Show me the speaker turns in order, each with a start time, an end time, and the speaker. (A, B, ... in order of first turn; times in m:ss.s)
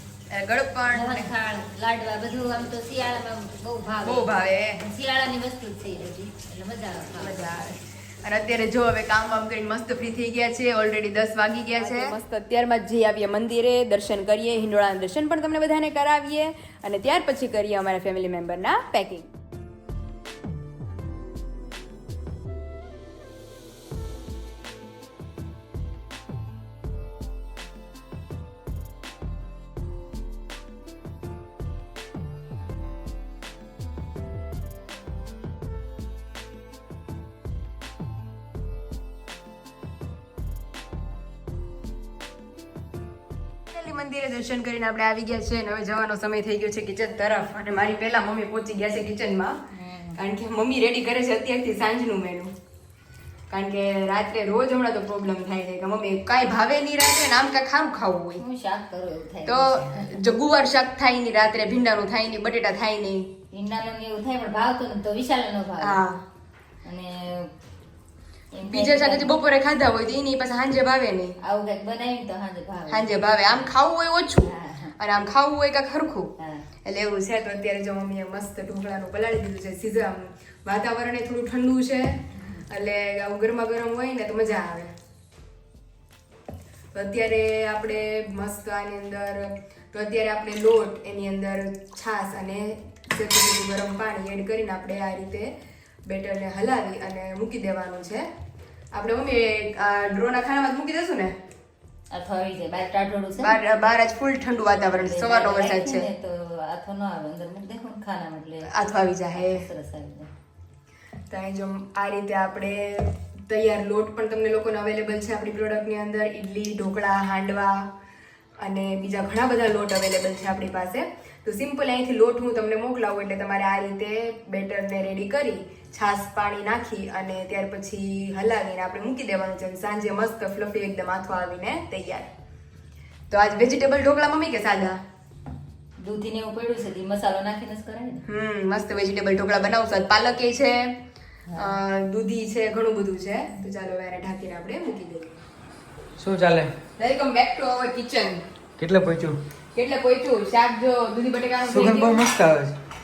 0:00.3-0:01.3 A
0:00.9-0:07.6 B
0:04.0-0:04.8 A
0:07.2-0:19.3 A
0:43.7-0:49.6 A
0:49.7-0:50.2 B
0:50.2-0:52.5 A
0:53.5-0:58.4 A
0:58.4-1:00.1 B
0:59.4-1:03.3 A
1:03.5-1:06.0 B
1:05.8-1:06.2 A
1:06.8-1:07.5 B
1:08.5-1:09.4 B
1:08.6-1:11.4 A
1:11.4-1:13.2 B
1:12.9-1:24.9 A
1:14.4-1:14.9 B
1:16.4-1:16.6 B
1:22.3-1:22.6 B
1:26.9-1:35.5 A
1:36.0-1:38.3 A
1:38.9-1:41.4 A
1:42.1-1:43.6 B
1:43.4-1:46.1 A
1:44.7-1:50.3 B
1:48.7-1:49.6 A
1:51.3-1:57.9 A
1:58.6-2:12.3 A
2:13.3-2:15.0 A
2:16.0-2:18.2 B
2:18.3-2:21.0 A
2:21.5-2:21.8 B
2:21.6-2:25.4 A
2:26.2-2:26.7 C
2:27.0-2:28.4 A
2:28.8-2:29.4 C
2:29.7-2:32.2 A
2:31.7-2:32.8 C